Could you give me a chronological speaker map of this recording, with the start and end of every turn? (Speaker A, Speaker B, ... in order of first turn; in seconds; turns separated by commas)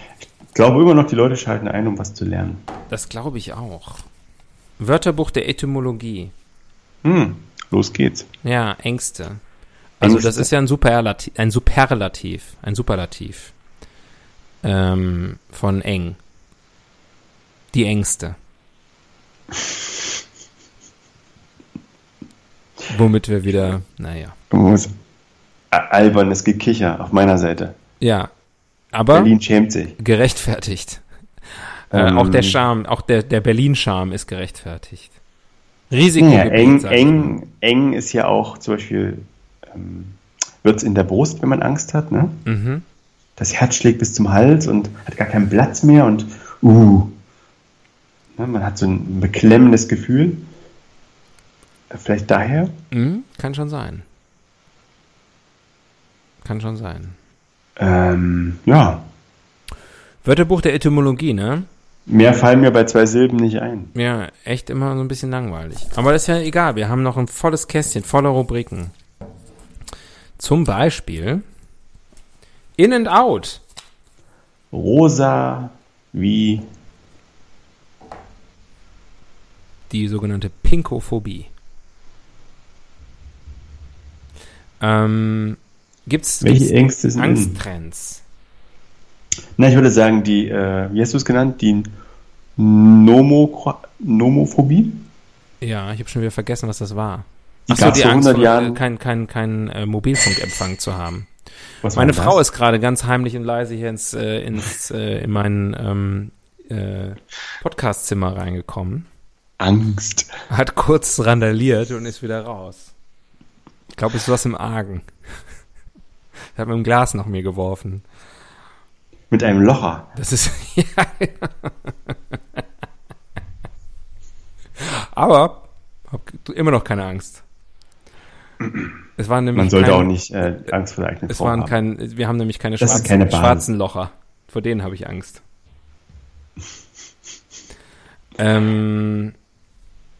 Speaker A: 0.5-2.6, Speaker B: 2.9-4.0, Speaker B: 4.8-6.3, Speaker A: 7.0-8.3, Speaker B: 8.4-9.4, Speaker B: 10.0-13.5, Speaker A: 10.0-10.5, Speaker B: 14.6-16.2, Speaker B: 17.7-18.4, Speaker B: 22.9-24.4, Speaker A: 24.5-24.9, Speaker A: 25.7-27.8, Speaker B: 28.0-28.3, Speaker B: 28.9-29.3, Speaker A: 29.1-30.0, Speaker B: 30.0-31.0, Speaker B: 31.6-35.1, Speaker A: 31.9-32.6, Speaker B: 35.9-37.3, Speaker A: 36.2-42.4, Speaker B: 42.5-42.9, Speaker A: 43.4-47.2, Speaker A: 48.4-50.5, Speaker A: 51.9-52.7, Speaker B: 52.9-54.0, Speaker B: 56.4-57.2, Speaker A: 57.8-59.1, Speaker B: 60.2-61.7, Speaker A: 62.1-63.9, Speaker B: 64.0-68.9, Speaker B: 70.4-71.4, Speaker B: 72.8-73.6, Speaker A: 74.7-76.7, Speaker B: 79.9-81.5, Speaker B: 84.8-88.2, Speaker A: 86.4-87.6, Speaker A: 89.6-91.9, Speaker A: 92.6-95.1, Speaker B: 95.6-101.3, Speaker A: 97.7-98.8, Speaker A: 101.8-102.4, Speaker B: 102.0-109.1, Speaker A: 109.6-110.3, Speaker B: 110.5-112.9, Speaker B: 113.9-115.1, Speaker B: 116.5-118.0, Speaker A: 119.3-120.1, Speaker B: 120.2-122.6, Speaker B: 124.8-127.4, Speaker A: 128.6-128.9, Speaker B: 129.2-130.1, Speaker A: 129.5-131.7, Speaker B: 131.3-135.4, Speaker A: 132.8-133.7, Speaker B: 138.4-139.3